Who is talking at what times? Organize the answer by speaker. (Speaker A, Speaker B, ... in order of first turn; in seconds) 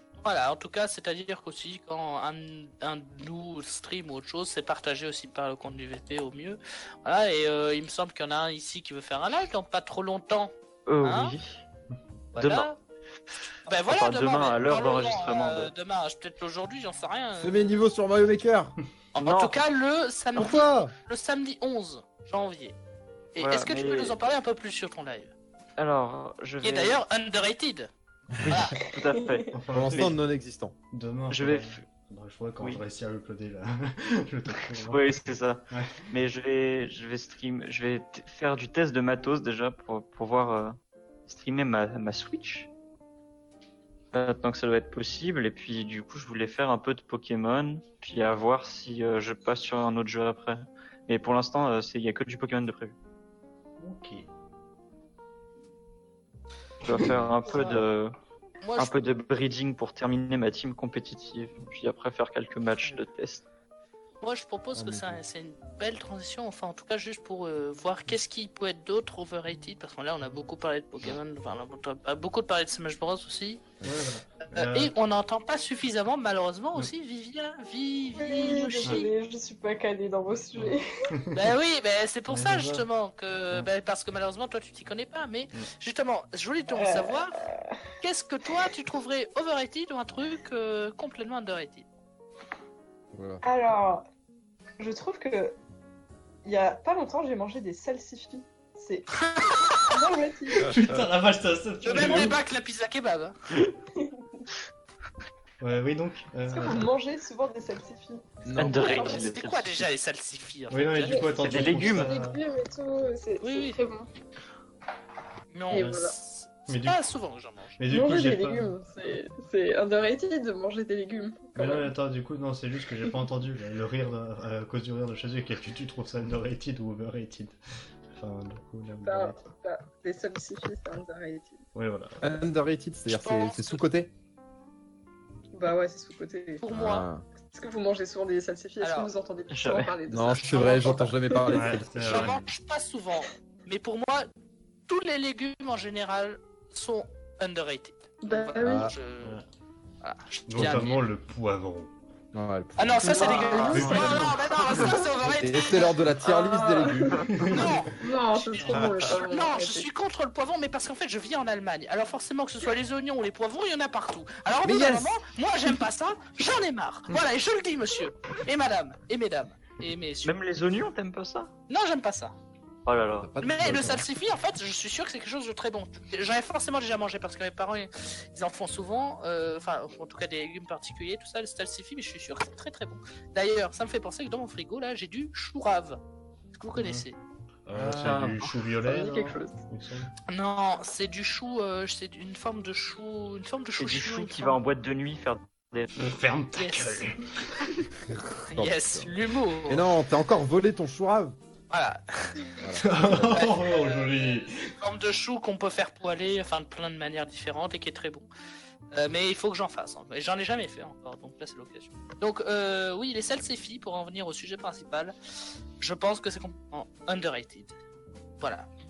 Speaker A: 0.2-11.4, 12.3-12.8, 13.6-17.8, 19.1-22.8, 23.3-25.3, 26.6-27.9, 28.5-28.8, 57.5-57.8, 58.6-59.0, 64.2-73.7, 74.5-79.1, 81.3-87.4, 88.0-91.9, 99.2-100.0, 101.8-103.3, 108.6-111.4, 113.4-113.8, 115.5-117.8, 133.1-133.8, 136.6-137.1, 138.8-139.1, 140.3-141.1, 142.0-144.3, 144.9-149.4, 150.0-151.1, 152.8-156.0, 157.4-170.4, 171.7-172.3, 173.4-186.0, 186.5-187.2, 190.3-194.6, 196.6-197.1, 198.5-199.8, 201.7-208.3, 208.9-215.1, 215.8-217.7, 218.4-218.7
Speaker B: 10.9-11.6, 12.4-12.7, 13.9-15.7, 19.2-19.6, 23.4-24.1, 25.8-27.0, 28.5-30.1, 31.3-31.8, 34.7-40.8, 41.3-42.7, 44.1-52.9, 56.8-58.1, 58.8-63.4, 108.5-109.9, 111.4-112.1, 139.5-139.9, 170.2-171.5, 172.9-173.3, 193.8-195.9
Speaker C: 17.4-18.8, 20.4-20.9, 29.7-30.7, 64.7-65.2, 93.1-93.4, 108.5-108.9, 132.2-134.1, 136.7-137.3, 140.1-142.4, 148.6-148.9, 152.3-153.9, 155.1-157.7, 164.6-165.2, 173.2-174.1, 187.7-188.4, 198.0-199.1, 199.7-201.4, 202.6-203.4
Speaker D: 29.0-29.4, 78.1-81.1, 86.7-87.7, 93.4-94.0, 94.8-95.6, 96.4-99.1, 99.9-100.7, 103.9-104.2, 106.5-109.3, 111.0-114.1, 115.7-116.1, 117.9-121.9, 129.0-131.6, 135.5-136.6, 137.4-141.7, 148.2-148.9, 153.0-154.9, 156.2-159.9, 188.8-189.6
Speaker E: 29.5-30.1, 30.9-35.0, 35.7-36.0, 53.8-54.3, 73.8-74.9, 80.5-81.5, 82.3-82.8, 100.6-102.4, 105.6-106.9, 110.7-112.4, 115.7-116.0, 116.7-117.0, 117.8-118.7, 121.5-127.5, 128.1-129.4, 131.7-132.3, 141.5-142.4, 150.5-151.9, 153.7-154.8, 157.3-157.8, 158.7-159.0, 186.8-187.1, 187.7-190.1, 195.9-197.7, 202.8-204.7